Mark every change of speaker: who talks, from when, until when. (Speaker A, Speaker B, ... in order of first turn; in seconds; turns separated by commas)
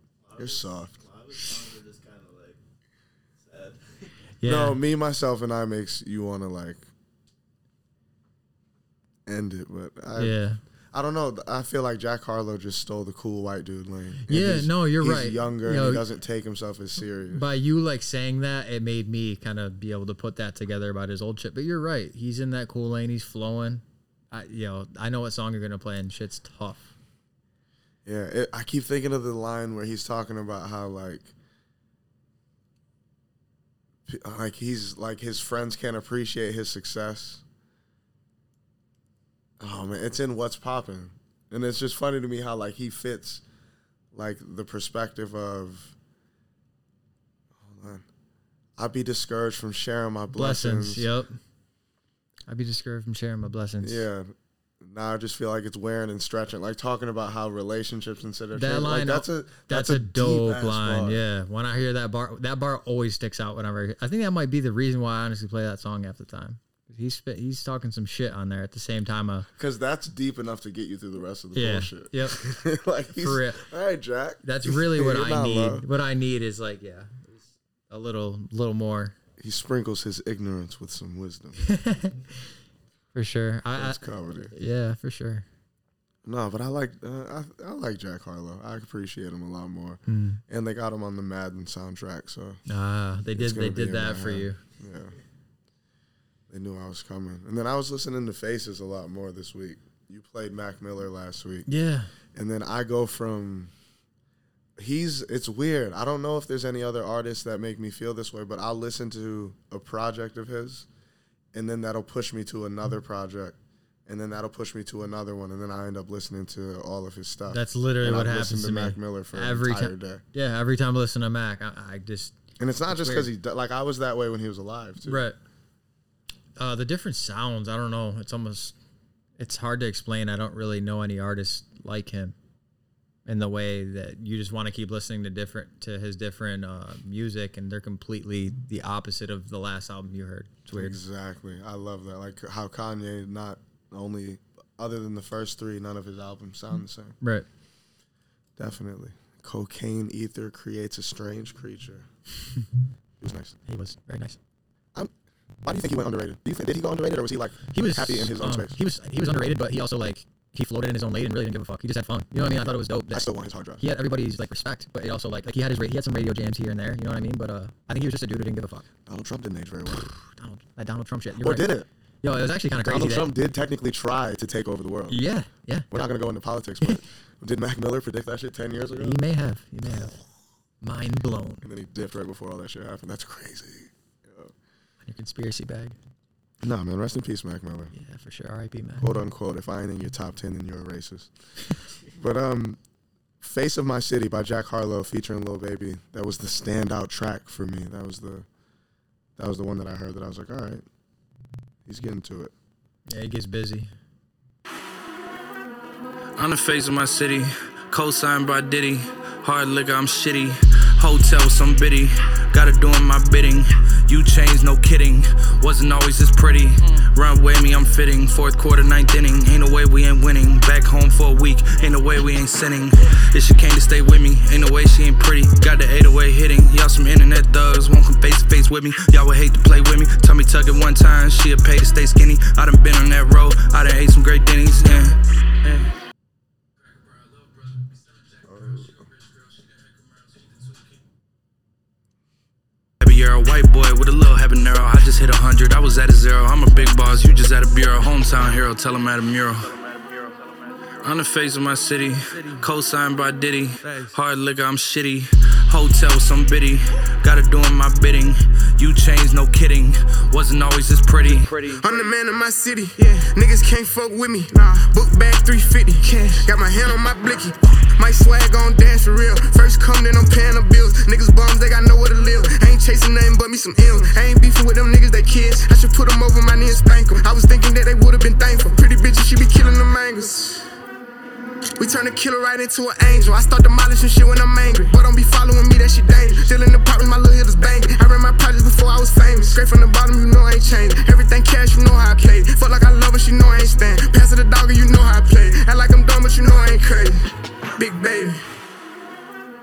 Speaker A: 0.2-2.6, Speaker B: 0.4-1.0, Speaker A: 3.4-4.1, Speaker C: 4.4-4.8, Speaker B: 4.4-6.8, Speaker B: 9.2-10.4, Speaker C: 10.2-10.6, Speaker B: 10.9-17.5, Speaker C: 14.3-16.1, Speaker C: 17.3-26.9, Speaker B: 28.0-31.3, Speaker B: 34.1-37.4, Speaker B: 39.6-43.4, Speaker B: 44.1-45.9, Speaker B: 47.5-48.0, Speaker B: 48.8-51.1, Speaker C: 50.3-51.4, Speaker C: 52.5-54.0, Speaker B: 53.8-61.2, Speaker C: 58.5-69.5, Speaker B: 69.5-75.9, Speaker C: 71.5-72.4, Speaker C: 73.2-73.6, Speaker C: 74.4-79.1, Speaker B: 79.4-81.6, Speaker C: 81.7-82.2, Speaker C: 83.1-85.4, Speaker B: 83.7-84.5, Speaker B: 86.2-92.6, Speaker C: 90.1-90.4, Speaker C: 92.7-94.6, Speaker B: 93.3-95.1, Speaker B: 96.5-101.7, Speaker C: 101.7-102.1, Speaker B: 102.3-103.7, Speaker B: 104.8-110.9, Speaker B: 111.5-120.2, Speaker C: 117.5-123.3, Speaker B: 122.6-125.3, Speaker C: 125.0-125.4, Speaker C: 126.6-128.7, Speaker C: 129.4-132.3, Speaker C: 133.2-141.0, Speaker B: 140.7-147.2, Speaker C: 147.2-147.4, Speaker B: 148.6-152.1, Speaker B: 153.2-153.6, Speaker C: 153.7-154.4, Speaker B: 155.6-158.8, Speaker C: 157.7-163.3, Speaker B: 163.1-163.8, Speaker C: 163.8-168.9, Speaker B: 169.1-170.1, Speaker C: 169.9-171.7, Speaker B: 171.3-171.9, Speaker C: 172.2-173.3, Speaker B: 172.8-175.2, Speaker C: 175.1-175.9, Speaker B: 175.9-179.2, Speaker C: 178.9-180.2, Speaker C: 180.8-181.7, Speaker B: 181.6-184.5, Speaker C: 185.0-186.0, Speaker B: 186.6-187.9, Speaker C: 187.9-189.1, Speaker B: 189.0-191.3, Speaker B: 192.1-192.8, Speaker B: 193.4-198.4, Speaker B: 199.4-200.8, Speaker B: 201.8-202.5, Speaker C: 203.1-203.9, Speaker D: 206.4-235.9, Speaker B: 238.4-239.1, Speaker D: 243.0-249.9, Speaker D: 250.9-261.9, Speaker E: 261.6-280.7, Speaker E: 281.8-298.4